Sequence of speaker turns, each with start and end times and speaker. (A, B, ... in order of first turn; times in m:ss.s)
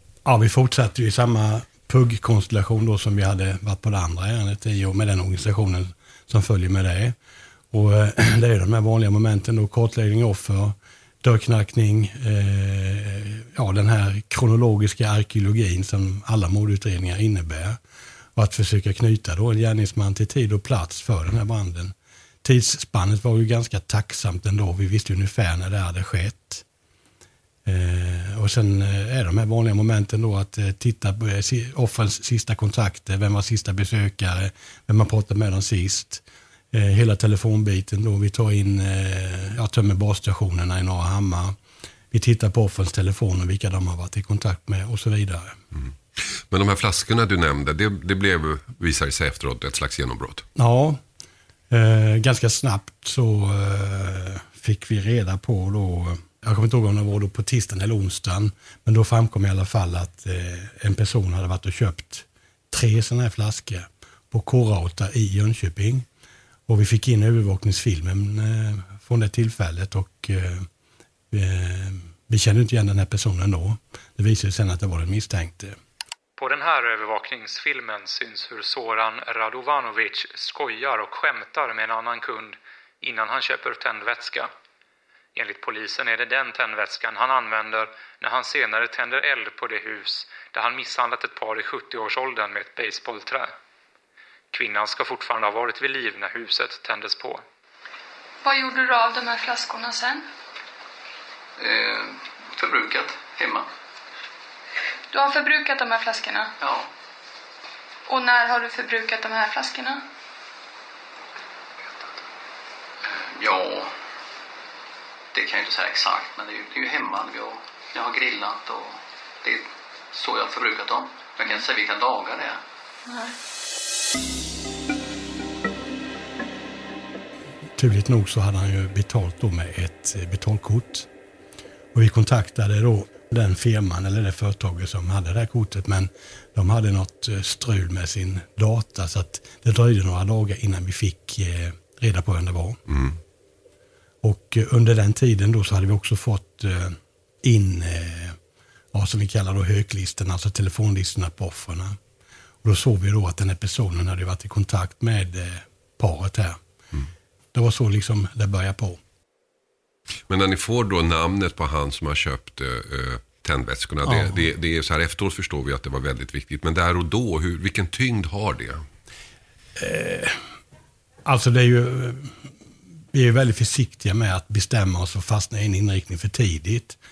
0:00.2-0:07.2 A
0:07.7-0:17.8 A
0:18.4-0:26.6 A
0:27.6-0:41.6 A
0:42.1-0:45.6 A
0:45.7-0:50.5 B
0:50.6-0:51.0 A
0:51.7-1:06.0 A
1:06.7-1:10.7 A
1:11.3-1:15.8 A
1:16.4-1:24.5 C
1:25.3-1:33.5 C
1:34.5-1:37.4 C
1:38.4-1:40.3 D
1:41.6-1:43.7 E
1:45.1-1:46.5 D
1:46.6-1:46.9 E
1:48.1-1:50.0 D
1:53.0-1:53.9 E
1:55.3-2:02.6 E
2:03.1-2:03.3 D
2:07.8-2:11.1 A
2:11.9-2:22.8 A
2:22.9-2:23.1 B
2:24.2-2:28.4 A
2:28.9-2:32.0 A
2:32.6-2:36.6 A
2:37.5-2:39.0 A
2:40.3-2:48.8 B
2:44.0-2:44.4 A
2:49.8-2:50.4 A
2:51.2-2:52.3 A
2:53.1-2:57.0 A